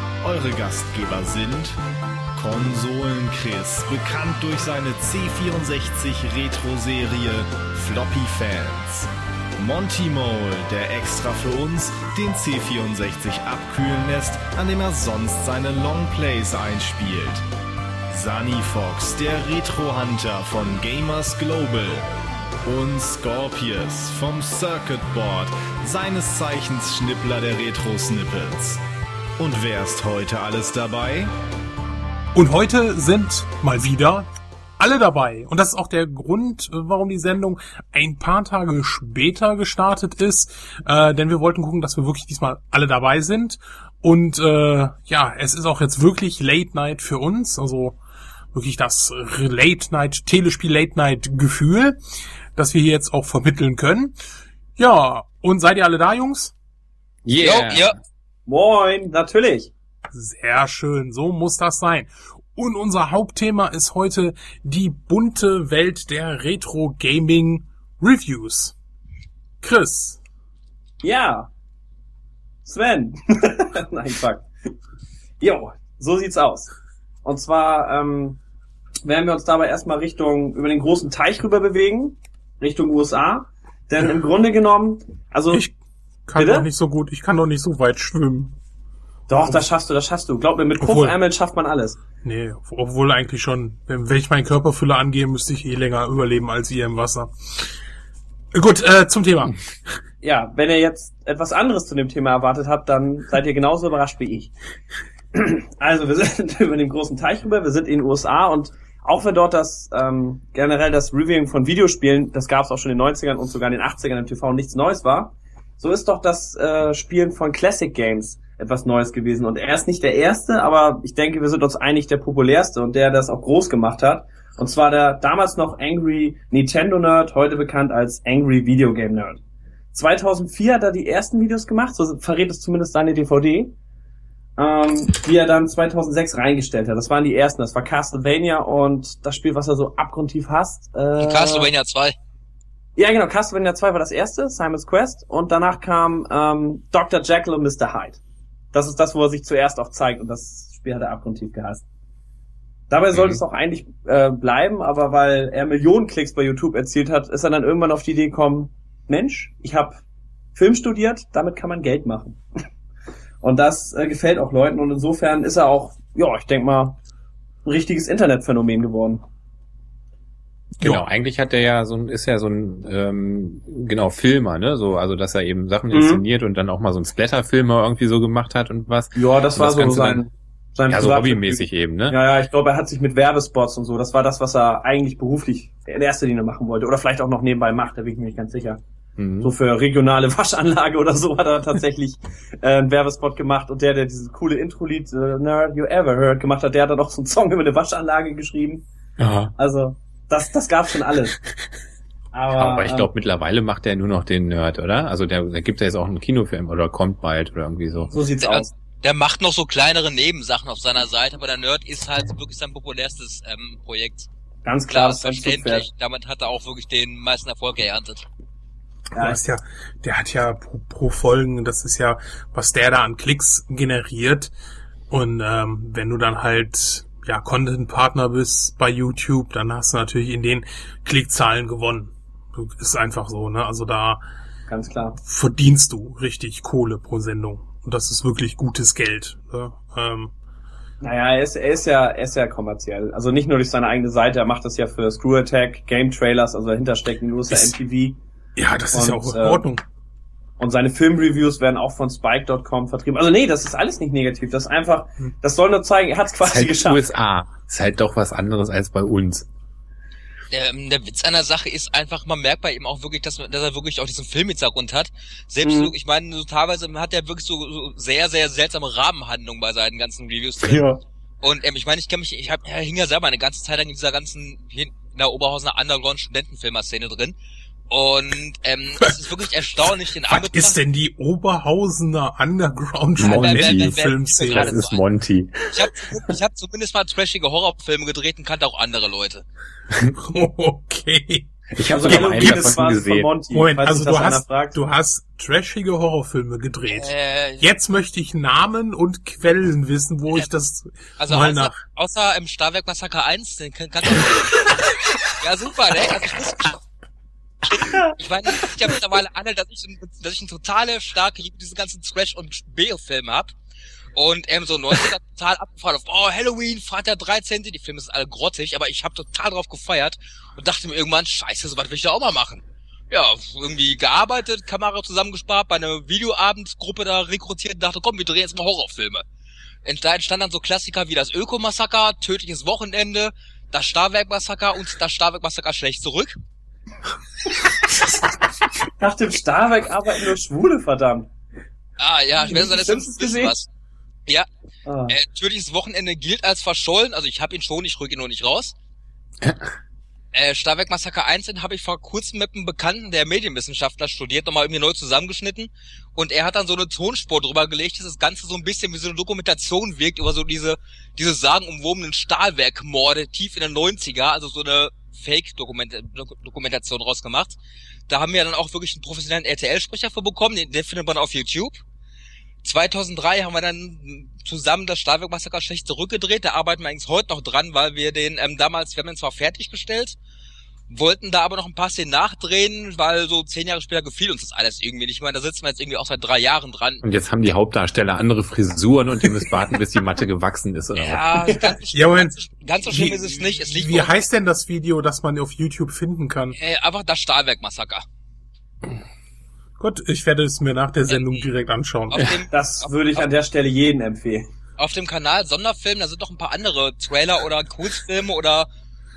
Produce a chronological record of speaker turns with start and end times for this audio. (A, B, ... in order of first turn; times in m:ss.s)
0:00.2-0:01.8 A
0:02.4-0:17.4 A
0:18.1-0:22.1 A
0:22.6-0:28.8 A
0:29.4-0:31.3 A
0:32.4-0:34.3 B
0:34.8-0:48.0 B
0:48.5-0:52.0 B
0:52.6-0:54.2 B
0:54.8-0:56.5 B
0:57.2-0:58.0 C
0:57.4-0:58.0 D
0:58.5-0:59.7 E
1:00.1-1:08.8 B
1:09.6-1:10.2 B
1:11.0-1:11.5 E
1:12.6-1:14.5 E
1:15.4-1:16.7 E
1:17.2-1:18.4 E
1:19.0-1:25.7 E
1:26.3-1:28.6 B
1:26.4-1:26.7 E
1:29.3-1:32.0 E
1:30.8-1:31.2 B
1:32.2-1:37.7 B
1:38.5-1:39.6 B
1:40.2-1:44.5 E
1:45.3-2:09.4 E
2:09.9-2:13.7 E
2:14.6-2:21.7 E
2:21.2-2:22.2 D
2:23.0-2:28.2 E
2:28.7-2:31.8 E
2:32.9-2:40.0 E
2:33.1-2:33.4 C
2:40.6-2:42.4 E
2:43.4-2:47.0 E
2:47.6-2:49.2 E
2:50.8-3:00.2 C
2:55.9-2:56.2 E
2:59.2-3:08.8 E
3:00.9-3:02.2 C
3:09.2-3:09.5 C
3:09.4-3:18.8 E
3:19.2-3:19.5 C
3:19.6-3:21.4 E
3:22.3-3:23.1 E
3:22.5-3:28.1 C
3:28.1-3:28.7 E
3:28.4-3:34.3 D
3:34.6-3:35.9 E
3:34.9-3:38.2 D
3:39.2-3:39.4 E
3:39.2-3:44.5 B
3:45.1-3:54.2 B
3:54.7-3:55.2 E
3:55.2-4:00.3 B
4:01.0-4:08.2 E
4:08.6-4:09.8 B
4:08.9-4:09.7 E
4:10.6-4:17.0 E
4:16.4-4:19.5 C
4:20.5-4:30.8 D
4:25.6-4:25.9 E
4:30.6-4:31.0 C
4:31.4-4:37.4 D
4:37.9-4:40.8 D
4:40.2-4:44.8 B
4:43.2-4:45.6 C
4:43.3-4:45.0 D
4:45.7-4:49.4 D
4:50.2-4:51.5 B
4:51.7-4:53.3 C
4:51.9-4:54.8 E
4:52.1-4:52.3 B
4:53.5-5:01.8 B
4:56.9-4:57.7 D
5:01.2-5:06.8 D
5:07.8-5:13.5 D
5:14.2-5:29.2 D
5:29.8-5:36.4 D
5:39.0-5:41.3 E
5:42.0-5:43.7 D
5:42.4-5:43.6 E
5:44.9-5:45.2 E
5:45.1-5:48.7 D
5:49.4-5:49.7 C
5:50.3-6:07.6 D
6:08.1-6:11.8 D
6:12.6-6:20.2 D
6:20.9-6:27.0 D
6:27.0-6:31.2 C
6:31.0-6:34.1 D
6:31.4-6:31.7 E
6:31.9-6:32.3 B
6:32.9-6:36.6 B
6:36.5-6:38.0 D
6:39.8-6:42.3 B
6:41.1-6:41.5 D
6:42.1-6:43.3 D
6:42.5-6:44.5 E
6:44.8-6:48.7 D